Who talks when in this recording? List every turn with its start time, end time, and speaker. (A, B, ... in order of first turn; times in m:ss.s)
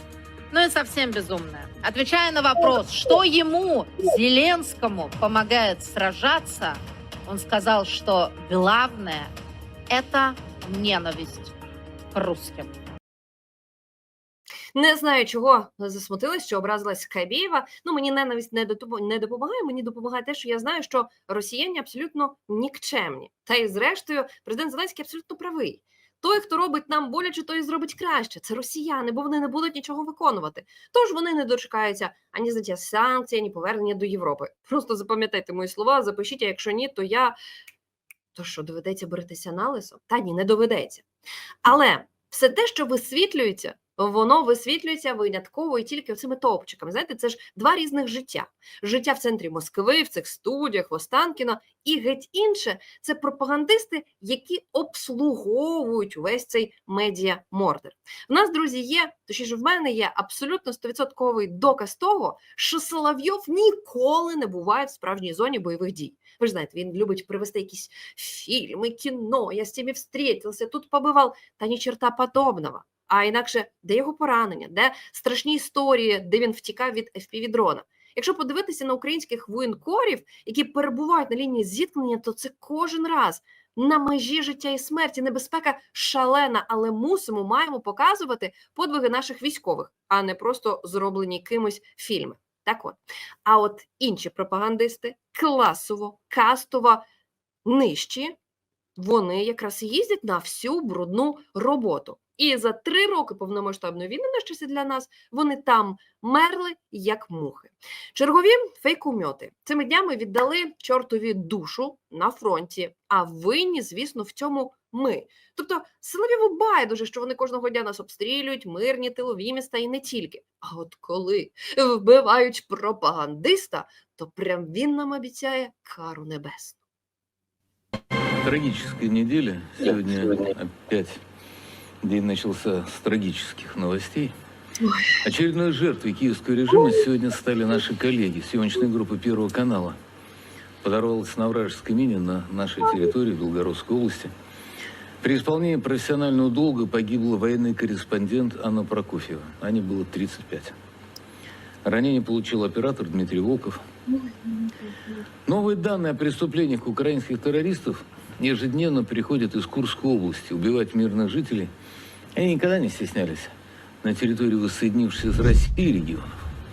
0:00.5-0:09.3 A
0:09.9-0:11.5 A
0:12.1-0:12.7 A
0:14.7-0:37.4 B
0:38.4-0:41.0 B
0:41.6-1:37.0 B
1:37.6-1:38.4 B
1:39.0-2:06.8 B
2:08.4-2:11.2 C
2:12.0-2:14.3 C
2:14.8-2:15.1 B
2:15.2-2:20.0 C
2:20.8-2:24.3 C
2:25.2-2:30.8 C
2:31.8-2:33.8 C
2:34.1-2:35.2 B
2:35.5-2:41.7 C
2:42.4-2:46.4 C